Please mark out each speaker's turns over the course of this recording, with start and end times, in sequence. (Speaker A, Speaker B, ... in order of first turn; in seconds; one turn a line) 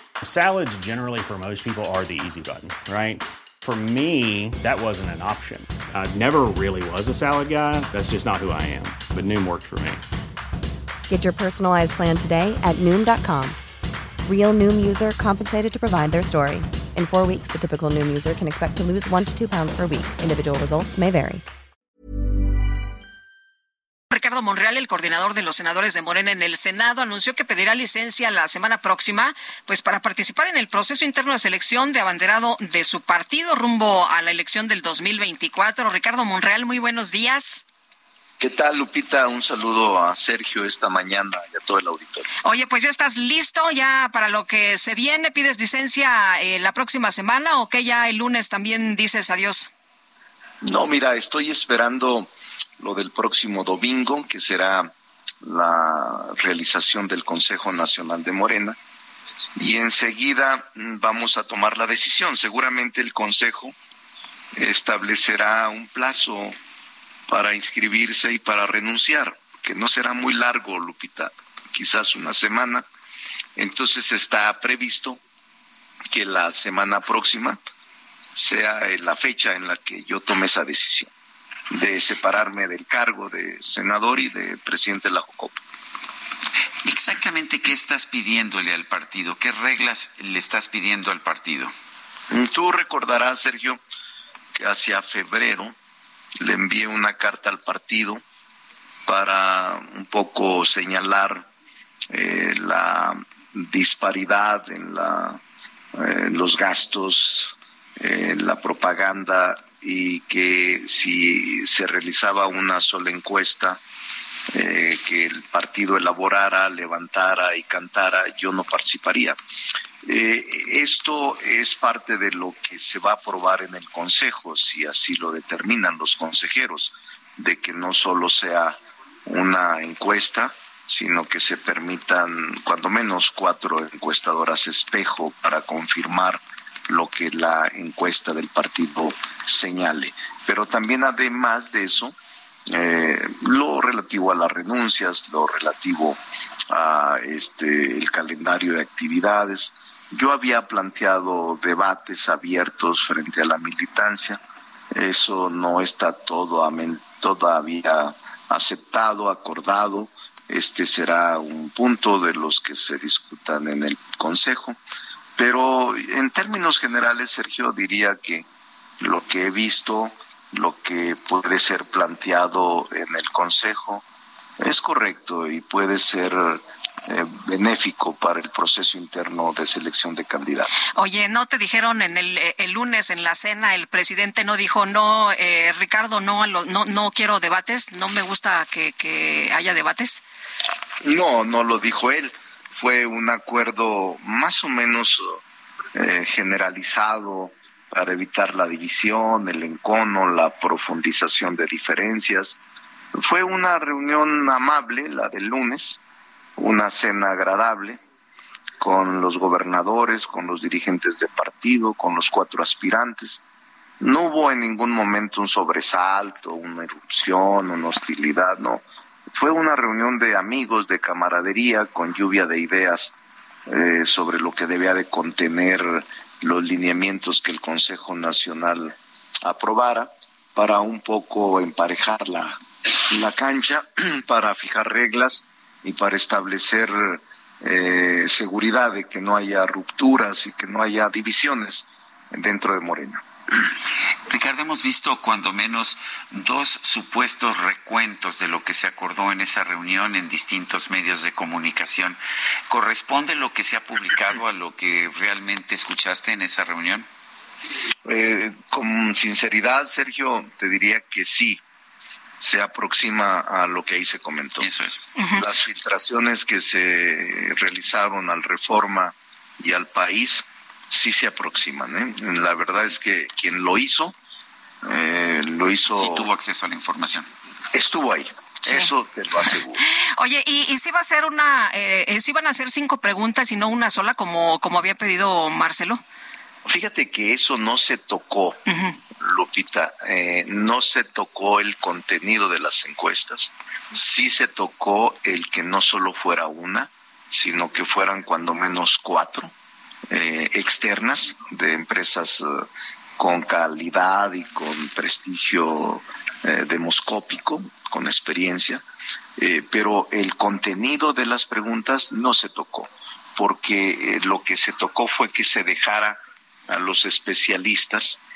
Speaker A: 0.2-10.0
Speaker B: 11.1-13.6
Speaker B: 14.2-21.4
Speaker C: 24.1-37.6
Speaker D: 38.4-42.3
Speaker C: 42.4-49.7
Speaker D: 50.6-54.9
Speaker D: 55.4-58.8
Speaker D: 59.6-63.7
Speaker D: 64.6-66.5
Speaker D: 67.3-72.8
Speaker D: 73.5-75.2
Speaker D: 76.1-77.6
Speaker D: 78.3-81.1
Speaker D: 81.7-85.6
Speaker E: 86.8-91.7
Speaker D: 92.3-93.8
Speaker D: 94.5-95.8
Speaker D: 96.4-98.2
Speaker D: 99.1-101.5
Speaker D: 102.1-105.4
Speaker D: 105.9-113.8
Speaker D: 114.5-119.4
Speaker D: 120.0-142.1
Speaker D: 142.7-146.2
Speaker D: 146.7-154.4
Speaker D: 154.9-164.8
Speaker D: 165.4-168.5
Speaker D: 169.0-174.0
Speaker D: 174.6-180.7
Speaker C: 180.9-190.2
Speaker D: 191.0-195.4
Speaker D: 195.9-202.6
Speaker D: 203.1-206.0
Speaker D: 206.6-208.0
Speaker D: 208.8-213.4
Speaker D: 214.0-223.1
Speaker D: 223.7-243.2
Speaker E: 244.3-252.2
Speaker E: 252.7-257.1
Speaker D: 258.0-261.6
Speaker D: 262.4-264.7
Speaker E: 264.6-265.0
Speaker C: 265.1-265.4
Speaker D: 265.4-274.1
Speaker D: 274.8-276.3
Speaker E: 275.9-277.3
Speaker D: 277.7-279.8
Speaker C: 278.6-278.9
Speaker C: 279.8-286.0
Speaker D: 286.6-288.6
Speaker C: 288.6-289.0
Speaker D: 289.2-299.5
Speaker D: 300.1-302.6
Speaker D: 303.2-308.8
Speaker D: 309.4-318.2